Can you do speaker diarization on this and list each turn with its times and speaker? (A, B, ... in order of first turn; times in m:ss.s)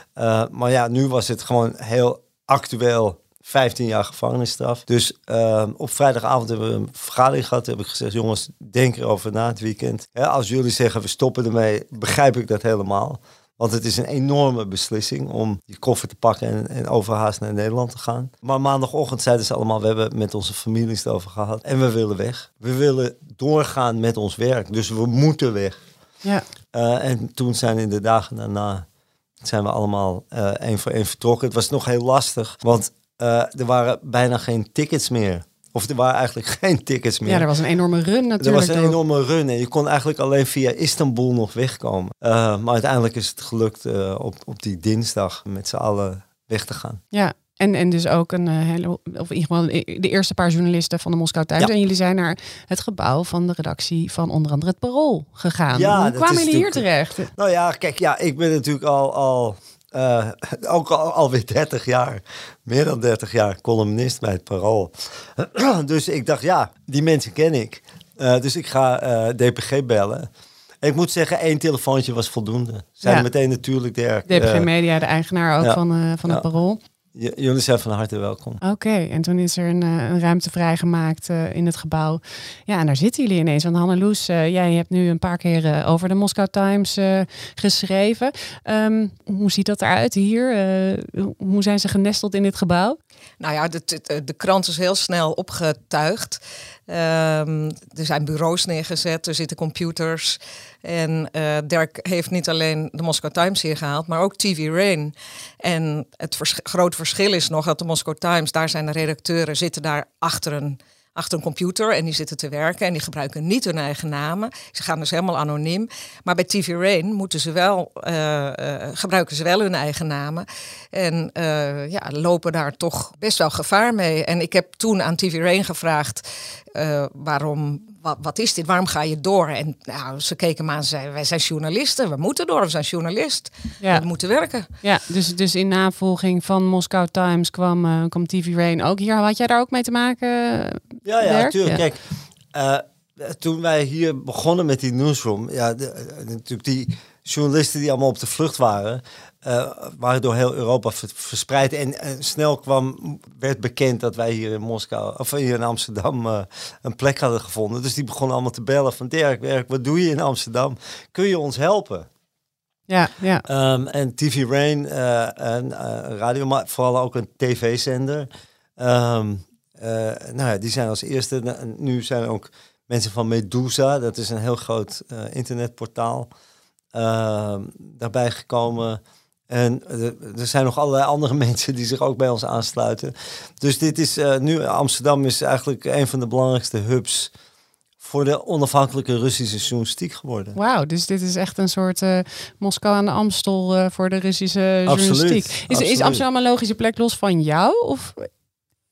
0:00.2-0:25.8 A
0:26.7-0:28.8 A
0:29.4-0:37.4 A
0:37.2-0:39.0 B
0:38.4-0:47.0 A
0:47.1-0:57.3 B
0:55.7-1:10.3 A
1:10.8-1:14.7 A
1:14.3-1:16.8 B
1:15.6-1:16.4 A
1:17.1-1:18.6 A
1:18.6-1:33.0 B
1:33.4-2:14.7 C
2:14.8-2:21.8 B
2:21.0-2:22.0 A
2:22.5-2:42.1 A
2:42.9-2:43.4 B
2:43.4-2:56.3 A
2:56.9-3:07.3 A
3:08.0-3:10.6 A
3:10.5-3:18.3 B
3:14.8-3:16.2 A